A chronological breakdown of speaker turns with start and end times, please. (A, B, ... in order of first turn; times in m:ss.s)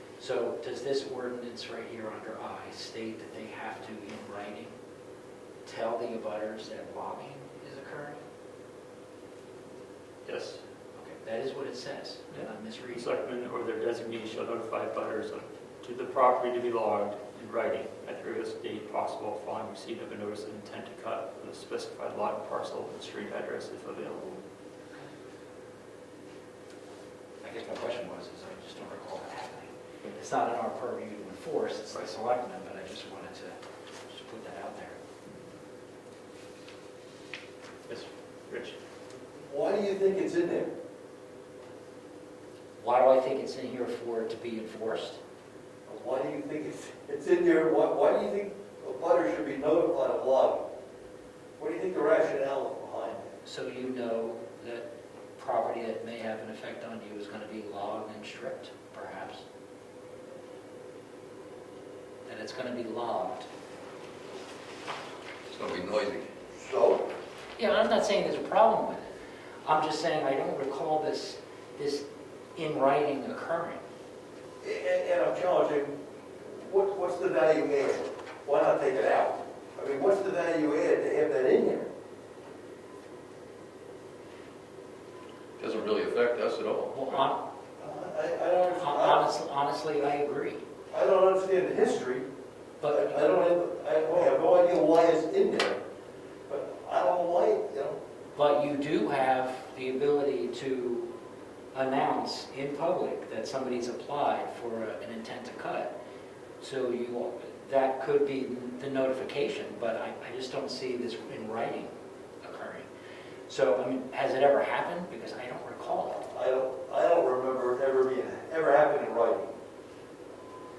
0:00.2-0:04.7 A
0:05.6-0:08.2 A
0:10.2-0:10.6 B
0:11.0-0:13.1 A
0:12.3-0:24.4 B
0:27.4-0:35.0 A
0:37.9-0:38.8 B
0:39.4-0:40.7 C
0:42.8-0:45.2 A
0:45.9-0:50.7 C
0:51.6-0:53.3 C
0:53.4-0:54.9 A
0:55.4-0:59.4 A
1:02.3-1:03.5 A
1:05.5-1:06.3 D
1:06.5-1:07.1 C
1:07.6-1:09.1 A
1:09.7-1:13.8 A
1:14.6-1:21.9 C
1:25.6-1:26.9 D
1:26.9-1:27.4 A
1:27.8-1:29.3 C
1:28.7-1:30.6 A
1:30.9-1:32.3 C
1:32.8-1:33.3 A
1:32.9-1:35.8 C
1:36.5-1:38.0 C
1:38.4-1:41.1 A
1:41.7-1:45.9 A
1:46.6-1:52.9 A
1:53.5-1:56.2 A
1:56.2-1:59.5 C